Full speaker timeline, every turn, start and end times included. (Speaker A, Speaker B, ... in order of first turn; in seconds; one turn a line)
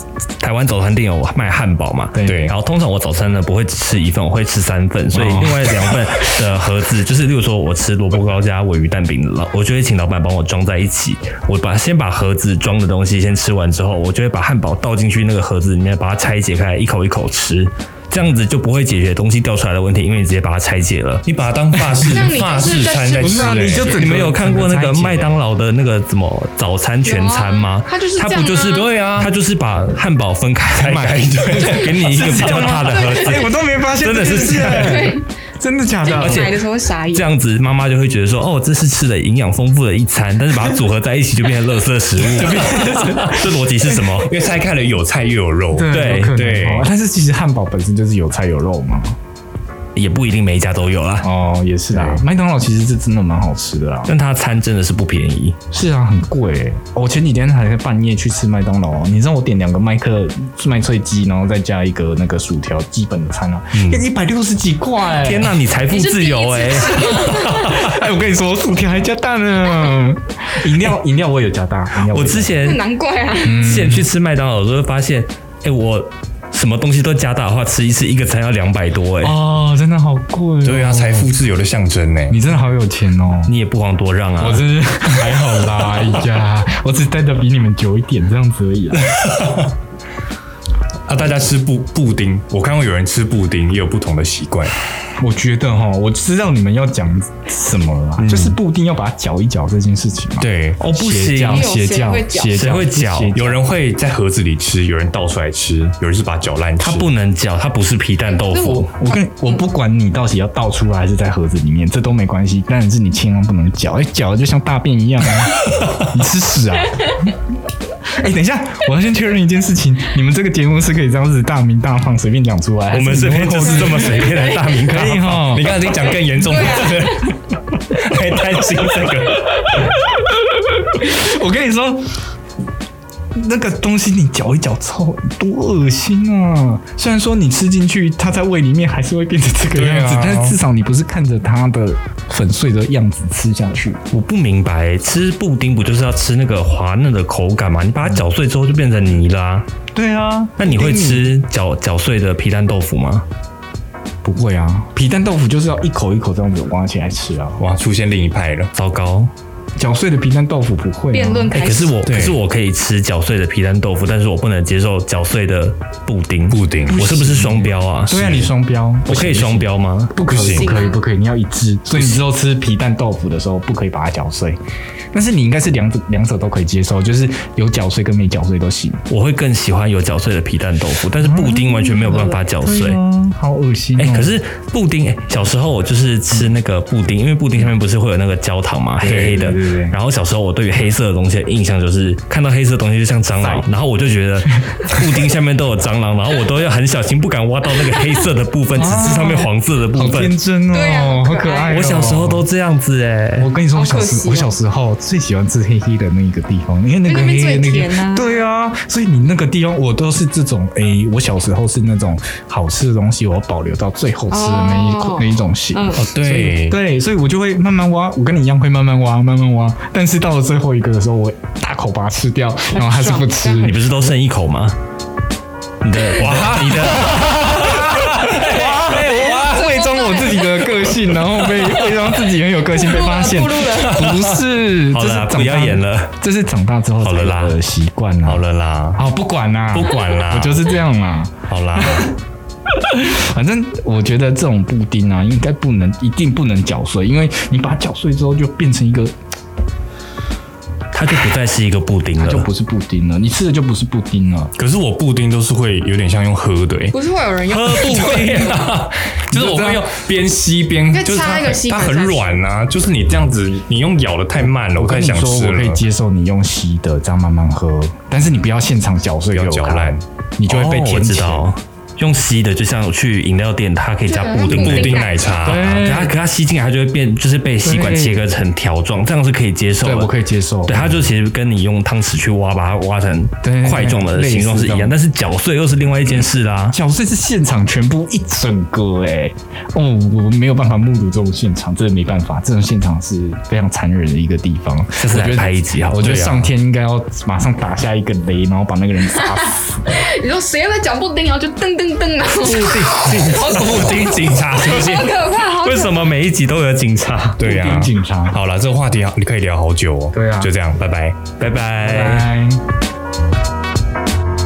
Speaker A: 0.4-22.2
Speaker B: 2.1-2.5
Speaker C: 2.2-2.5
Speaker B: 5.1-6.1
Speaker C: 21.3-24.0
Speaker D: 22.1-24.0
Speaker B: 23.1-25.3
Speaker A: 23.8-35.1
Speaker D: 27.0-28.9
Speaker C: 28.6-29.3
Speaker C: 30.7-32.2
Speaker B: 31.6-36.5
Speaker D: 32.6-33.6
Speaker D: 34.6-35.2
Speaker D: 36.0-37.3
Speaker A: 36.1-36.6
Speaker A: 37.1-44.4
Speaker B: 42.2-43.6
Speaker C: 43.9-46.9
Speaker B: 45.7-49.2
Speaker A: 45.9-46.4
Speaker A: 50.0-51.3
Speaker B: 51.2-54.1
Speaker C: 51.9-52.2
Speaker A: 54.1-55.6
Speaker B: 55.7-65.6
Speaker C: 63.8-64.0
Speaker A: 65.2-67.9
Speaker D: 65.9-67.9
Speaker B: 67.0-72.6
Speaker A: 72.1-72.8
Speaker D: 72.6-73.7
Speaker B: 73.4-74.1
Speaker A: 73.5-79.4
Speaker B: 79.2-81.4
Speaker C: 80.6-82.4
Speaker B: 82.3-83.5
Speaker A: 83.5-84.6
Speaker B: 84.4-89.2
Speaker C: 85.2-86.1
Speaker C: 88.9-89.7
Speaker C: 91.1-94.8
Speaker B: 95.2-103.7
Speaker C: 98.2-98.6
Speaker C: 100.4-100.8
Speaker A: 100.8-101.7
Speaker D: 101.4-102.6
Speaker A: 102.5-103.3
Speaker C: 103.3-107.1
Speaker A: 106.8-108.9
Speaker D: 108.3-109.6
Speaker B: 109.0-117.3
Speaker B: 118.0-125.8
Speaker A: 122.9-125.6
Speaker C: 125.4-127.4
Speaker D: 125.9-127.3
Speaker C: 127.9-129.9
Speaker B: 129.6-132.2
Speaker B: 133.3-144.0
Speaker C: 139.7-140.6
Speaker A: 144.1-149.7
Speaker B: 149.9-151.3
Speaker A: 150.6-153.2
Speaker B: 154.2-157.6
Speaker C: 157.6-158.7
Speaker A: 158.7-159.3
Speaker B: 159.8-161.6
Speaker D: 161.1-162.0
Speaker A: 161.5-168.5
Speaker C: 162.1-162.4
Speaker B: 162.1-162.3
Speaker C: 166.5-167.3
Speaker B: 167.0-174.6
Speaker A: 169.1-170.2
Speaker D: 170.2-171.0
Speaker C: 170.2-170.8
Speaker B: 175.1-179.0
Speaker A: 179.1-183.0
Speaker B: 181.2-184.4
Speaker A: 184.0-200.3
Speaker C: 189.0-189.4
Speaker B: 189.1-190.0
Speaker B: 193.4-193.7
Speaker B: 194.5-194.8
Speaker B: 198.8-202.5
Speaker C: 198.9-199.4
Speaker D: 200.7-201.9
Speaker A: 201.7-203.5
Speaker B: 203.4-223.9
Speaker D: 203.7-204.5
Speaker D: 207.1-208.4
Speaker D: 214.3-216.1
Speaker C: 216.0-216.8
Speaker D: 222.7-223.7
Speaker A: 223.6-224.8
Speaker A: 225.8-229.4
Speaker C: 226.2-227.5
Speaker B: 226.3-242.1
Speaker D: 229.0-230.7
Speaker D: 232.7-234.2
Speaker A: 234.0-236.1
Speaker A: 237.0-237.6
Speaker A: 238.3-239.0
Speaker C: 238.3-238.6
Speaker C: 239.7-240.6
Speaker A: 241.7-242.0
Speaker B: 242.7-249.1
Speaker A: 250.9-252.5
Speaker B: 252.2-254.5
Speaker C: 254.6-256.9
Speaker D: 256.9-258.6
Speaker C: 257.5-265.8
Speaker B: 259.3-259.8
Speaker D: 260.9-262.3
Speaker B: 264.8-271.5
Speaker C: 269.3-271.1
Speaker A: 270.5-280.1
Speaker D: 274.1-275.6
Speaker C: 274.5-275.7
Speaker B: 275.4-276.2
Speaker B: 277.6-278.2
Speaker B: 279.8-281.0
Speaker A: 280.6-286.8
Speaker B: 283.4-285.0
Speaker B: 286.7-299.9
Speaker A: 295.0-296.3
Speaker C: 296.0-296.3
Speaker D: 299.2-306.1
Speaker B: 302.4-304.1
Speaker C: 302.7-305.1
Speaker A: 303.4-304.8
Speaker A: 305.5-307.6
Speaker C: 307.4-311.2
Speaker B: 307.4-308.4
Speaker B: 310.1-310.5
Speaker A: 311.4-312.3
Speaker B: 311.8-312.6